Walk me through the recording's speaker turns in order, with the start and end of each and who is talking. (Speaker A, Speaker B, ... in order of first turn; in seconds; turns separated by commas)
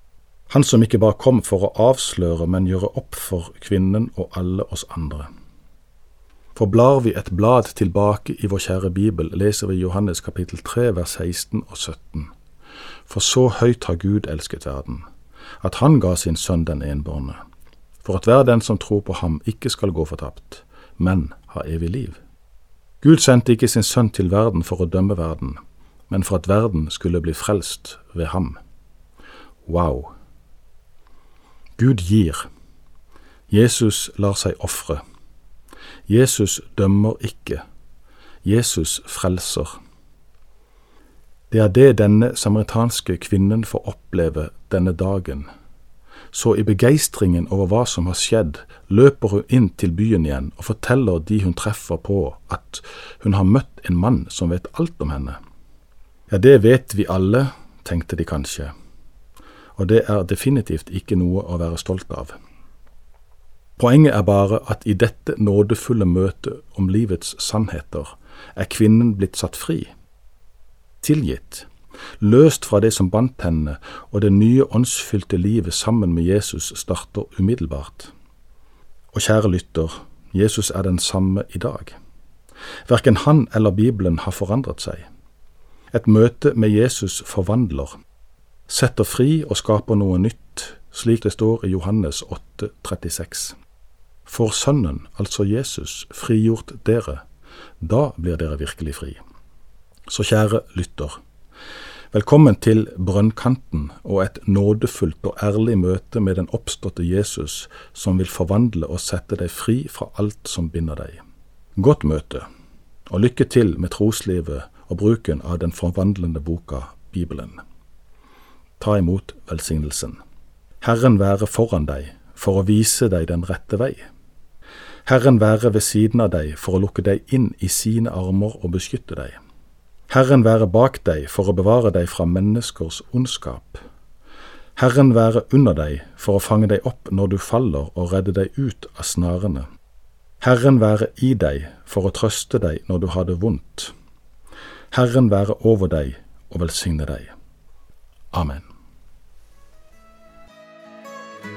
Speaker A: 0.5-5.3, Speaker A: 6.5-12.3, Speaker A: 13.1-15.0, Speaker A: 15.6-17.4, Speaker A: 18.0-22.2, Speaker A: 23.0-25.6, Speaker A: 26.1-28.6, Speaker A: 29.6-30.1, Speaker A: 31.8-32.5, Speaker A: 33.5-35.0, Speaker A: 36.1-37.6, Speaker A: 38.4-39.7, Speaker A: 41.5-45.5, Speaker A: 46.3-55.4, Speaker A: 56.3-58.7, Speaker A: 59.8-62.3, Speaker A: 63.8-69.9, Speaker A: 71.0-71.7, Speaker A: 72.2-78.1, Speaker A: 79.1-82.0, Speaker A: 82.9-85.0, Speaker A: 85.9-87.9, Speaker A: 88.7-93.5, Speaker A: 94.2-97.2, Speaker A: 97.8-99.2, Speaker A: 100.1-101.2, Speaker A: 102.1-111.2, Speaker A: 111.8-112.4, Speaker A: 113.1-117.6, Speaker A: 118.8-120.2, Speaker A: 120.8-124.0, Speaker A: 125.0-129.3, Speaker A: 130.1-133.8, Speaker A: 134.8-139.7, Speaker A: 140.4-143.9, Speaker A: 144.9-147.3, Speaker A: 148.3-148.7